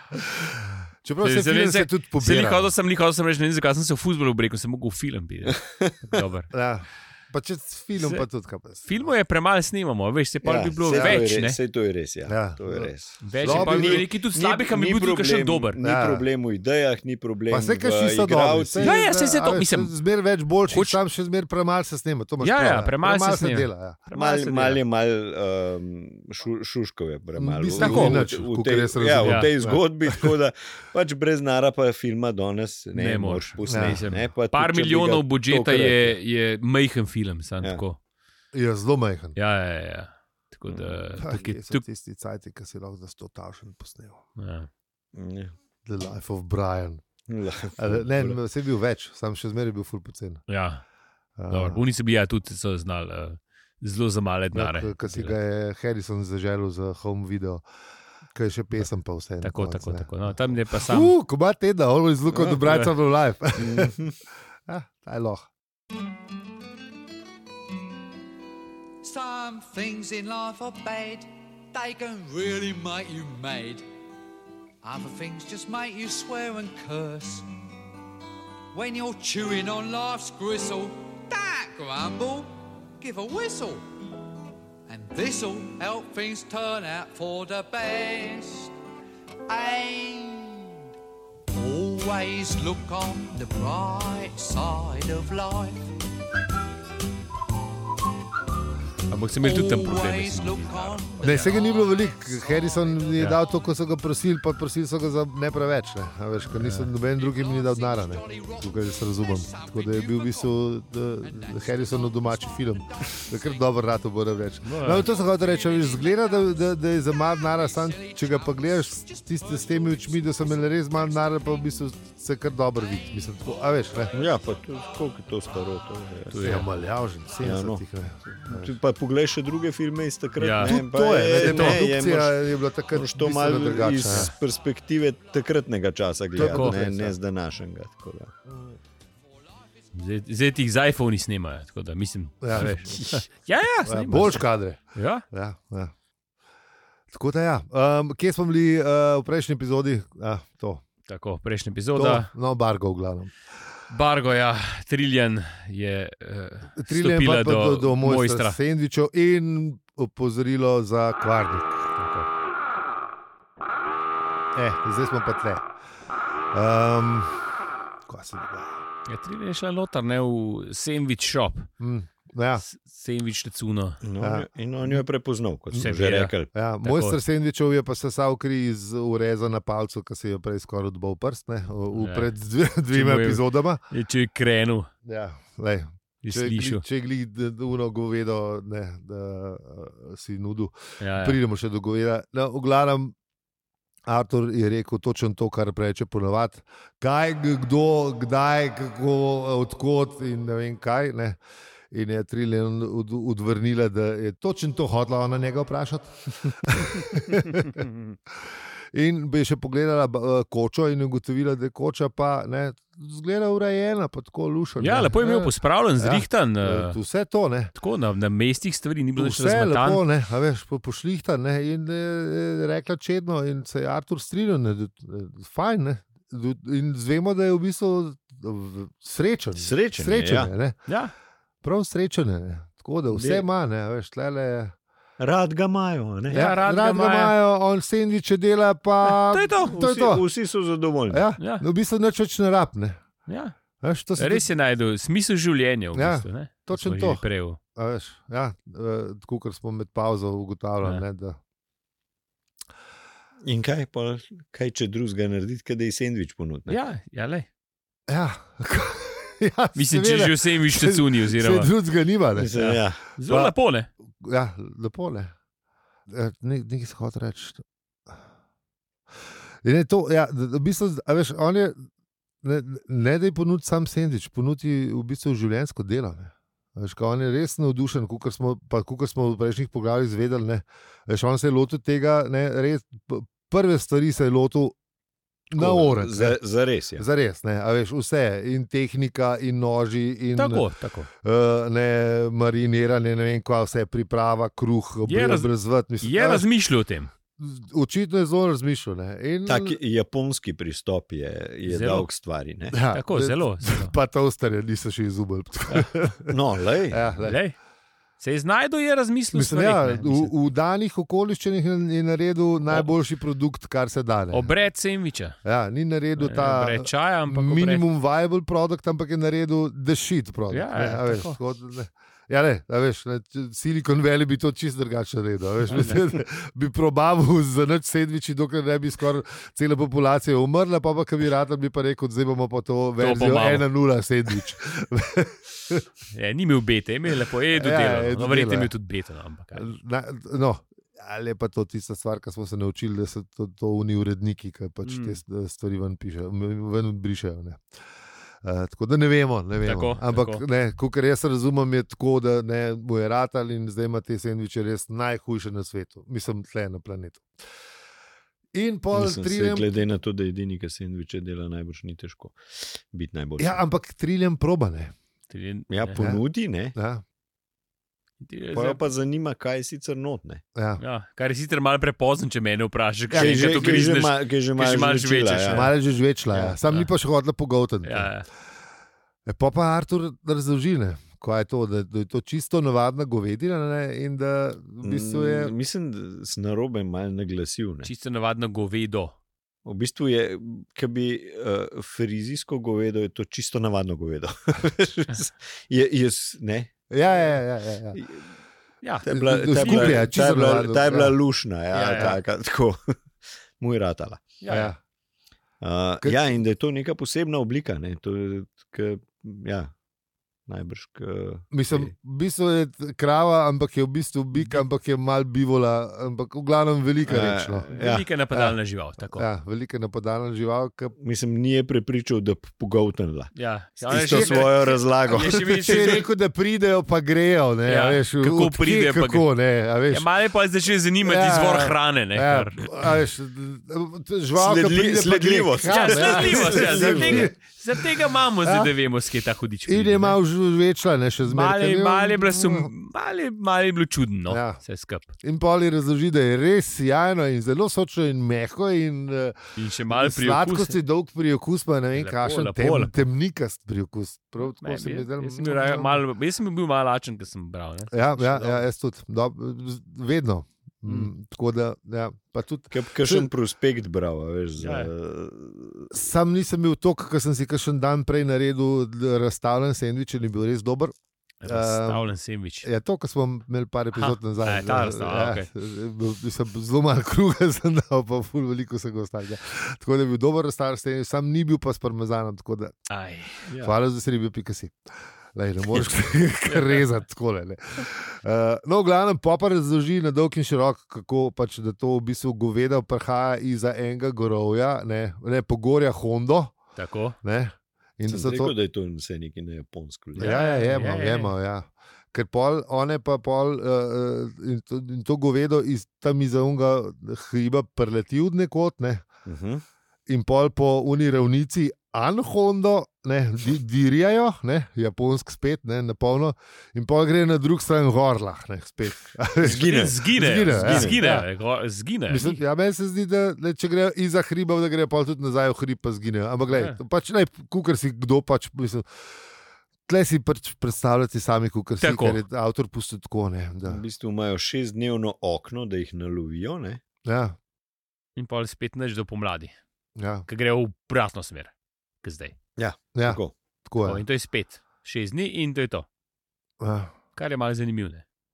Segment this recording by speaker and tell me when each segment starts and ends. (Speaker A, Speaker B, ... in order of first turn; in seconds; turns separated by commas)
Speaker A: 0.1-2.7, Speaker B: 1.2-6.5, Speaker C: 5.6-6.0, Speaker A: 6.5-9.1, Speaker B: 8.0-8.2, Speaker B: 8.8-11.6, Speaker C: 10.4-18.9, Speaker A: 10.9-11.2, Speaker A: 12.3-14.1, Speaker B: 13.2-15.8, Speaker A: 15.8-16.3, Speaker A: 17.5-24.0, Speaker B: 18.8-19.9, Speaker B: 20.7-21.0, Speaker B: 22.4-24.8, Speaker C: 24.1-36.2, Speaker A: 27.4-30.3, Speaker B: 27.8-28.2, Speaker B: 29.2-29.5, Speaker B: 33.0-38.0, Speaker A: 33.7-34.0, Speaker A: 38.5-39.4, Speaker B: 39.4-41.8, Speaker C: 40.7-41.0, Speaker A: 41.2-44.2, Speaker B: 44.4-44.7, Speaker C: 45.1-45.5, Speaker A: 45.9-47.0, Speaker C: 47.3-48.4, Speaker A: 47.8-50.4, Speaker B: 50.5-50.8, Speaker A: 51.4-51.8, Speaker B: 51.5-55.4, Speaker A: 54.5-57.6, Speaker A: 58.3-64.0, Speaker B: 59.4-61.1, Speaker C: 62.3-62.6, Speaker C: 63.6-64.2, Speaker A: 64.7-65.5, Speaker D: 69.0-73.9, Speaker D: 74.8-77.5, Speaker D: 78.7-83.8, Speaker D: 84.9-88.7, Speaker D: 89.5-90.7, Speaker D: 91.5-95.9, Speaker B: 99.1-101.5, Speaker D: 99.4-103.4, Speaker A: 101.2-124.1, Speaker B: 106.5-106.9, Speaker D: 107.1-110.7, Speaker D: 111.2-113.7, Speaker B: 114.6-115.1, Speaker D: 114.8-116.6, Speaker D: 117.4-121.4, Speaker C: 124.1-126.4, Speaker B: 126.3-126.7, Speaker A: 126.4-128.8, Speaker C: 127.4-138.3, Speaker B: 130.4-130.8, Speaker A: 130.6-134.3, Speaker B: 131.4-131.8, Speaker A: 136.3-137.1, Speaker B: 136.4-136.9, Speaker B: 139.9-145.2, Speaker A: 142.4-143.2, Speaker A: 143.8-145.9, Speaker A: 147.1-150.8, Speaker B: 151.1-152.3, Speaker A: 151.9-153.3, Speaker B: 153.9-158.6, Speaker A: 156.8-161.8, Speaker B: 162.0-162.3, Speaker A: 164.5-165.7, Speaker A: 166.5-167.4, Speaker A: 168.1-168.8, Speaker B: 169.1-171.7, Speaker A: 171.8-172.6, Speaker B: 172.6-174.0, Speaker C: 174.0-176.5, Speaker A: 174.2-175.0, Speaker B: 175.8-177.2, Speaker A: 176.5-183.8, Speaker B: 181.9-182.3, Speaker B: 182.9-184.9, Speaker A: 185.1-193.2, Speaker B: 186.2-186.8, Speaker B: 191.0-191.4, Speaker A: 194.1-201.4, Speaker A: 201.9-207.8, Speaker A: 208.4-217.7, Speaker B: 214.8-217.0, Speaker B: 217.7-220.0, Speaker A: 219.2-230.9, Speaker C: 229.6-230.5, Speaker B: 230.9-231.1, Speaker A: 231.6-234.8, Speaker C: 233.1-233.4, Speaker C: 235.2-236.4, Speaker B: 236.3-237.3, Speaker A: 236.3-240.2, Speaker B: 239.1-239.8, Speaker C: 239.6-241.2, Speaker A: 241.1-243.0, Speaker B: 241.4-241.7, Speaker B: 243.3-243.6, Speaker A: 243.8-244.5, Speaker B: 244.2-247.6, Speaker A: 245.9-247.2, Speaker A: 247.8-251.4, Speaker C: 253.4-256.8, Speaker B: 256.7-257.5, Speaker A: 258.1-262.6, Speaker B: 259.8-261.7, Speaker C: 262.4-263.1, Speaker B: 262.6-263.9, Speaker A: 264.2-265.3, Speaker A: 266.1-267.6, Speaker A: 269.6-271.9, Speaker A: 272.4-284.8, Speaker A: 285.5-286.4, Speaker C: 285.5-287.1, Speaker A: 287.0-290.7, Speaker B: 290.4-291.1, Speaker A: 291.2-296.5, Speaker B: 295.1-295.5, Speaker B: 296.0-297.1, Speaker A: 297.4-299.8, Speaker C: 299.5-302.8, Speaker B: 301.7-302.1, Speaker A: 302.7-306.3, Speaker B: 302.9-303.9, Speaker C: 306.3-307.0, Speaker A: 306.9-307.4, Speaker B: 307.2-307.6, Speaker B: 308.2-310.3, Speaker A: 309.3-314.5, Speaker B: 314.3-315.4, Speaker A: 315.4-335.9, Speaker B: 316.2-317.9, Speaker B: 320.5-321.4, Speaker B: 325.7-326.0, Speaker B: 333.0-333.7, Speaker B: 336.1-339.7, Speaker A: 337.5-338.7, Speaker A: 339.6-347.6, Speaker B: 344.8-345.2, Speaker A: 348.4-357.2, Speaker B: 349.6-350.4, Speaker A: 358.5-359.7, Speaker C: 358.9-363.6, Speaker A: 363.4-364.9, Speaker B: 365.3-366.0, Speaker C: 365.7-366.8, Speaker A: 366.0-366.2, Speaker A: 366.8-367.0, Speaker B: 368.2-368.8, Speaker C: 368.5-370.4, Speaker A: 370.6-370.8, Speaker B: 370.8-375.7, Speaker A: 373.1-373.7, Speaker C: 373.1-375.7, Speaker A: 375.5-378.1, Speaker B: 377.9-378.3, Speaker A: 379.3-385.5, Speaker C: 384.8-387.9, Speaker B: 387.8-389.2, Speaker C: 389.6-396.7, Speaker A: 396.9-398.0, Speaker C: 397.9-398.2, Speaker B: 398.8-400.0, Speaker C: 399.0-402.8, Speaker A: 399.1-401.1, Speaker B: 401.7-402.2, Speaker A: 401.9-402.2, Speaker C: 403.6-404.3, Speaker B: 404.4-404.7, Speaker A: 404.5-404.8, Speaker C: 405.6-409.7, Speaker C: 410.5-411.9, Speaker A: 411.5-417.7, Speaker C: 417.1-418.1, Speaker B: 417.7-419.3, Speaker A: 419.1-420.9, Speaker C: 421.0-426.0, Speaker B: 423.4-426.1, Speaker A: 423.9-424.5, Speaker A: 425.1-430.1, Speaker B: 427.7-429.3, Speaker B: 429.9-432.7, Speaker A: 431.0-437.4, Speaker C: 434.4-437.3, Speaker B: 435.7-440.2, Speaker A: 438.4-438.7, Speaker A: 439.7-442.7, Speaker B: 441.3-445.1, Speaker A: 444.3-444.6, Speaker A: 445.2-449.4, Speaker B: 449.6-450.8, Speaker A: 449.9-456.0, Speaker B: 452.0-453.0, Speaker B: 454.4-458.6, Speaker A: 457.9-463.3, Speaker B: 460.9-461.1, Speaker C: 462.7-466.0, Speaker B: 464.6-464.9, Speaker A: 465.9-470.9, Speaker B: 471.4-472.7, Speaker A: 471.4-472.1, Speaker A: 472.6-482.8, Speaker B: 473.9-475.5, Speaker B: 482.9-483.5, Speaker C: 483.5-483.7, Speaker A: 483.6-484.8, Speaker A: 485.3-496.6, Speaker B: 486.5-486.8, Speaker B: 496.8-497.2, Speaker A: 497.2-498.5, Speaker C: 498.1-500.4, Speaker A: 500.2-509.1, Speaker B: 500.2-501.3, Speaker C: 509.3-509.6, Speaker A: 510.1-521.3, Speaker C: 519.4-521.0, Speaker B: 519.5-522.4, Speaker A: 522.1-528.9, Speaker B: 526.5-526.8, Speaker A: 529.9-533.8, Speaker B: 531.8-532.2, Speaker C: 533.7-536.8, Speaker A: 537.0-537.4, Speaker B: 538.2-539.5, Speaker A: 540.0-540.3, Speaker B: 540.3-541.5, Speaker B: 542.0-542.4, Speaker C: 542.6-543.3, Speaker A: 543.0-544.0, Speaker B: 543.8-545.9, Speaker A: 546.6-546.9, Speaker B: 547.2-548.0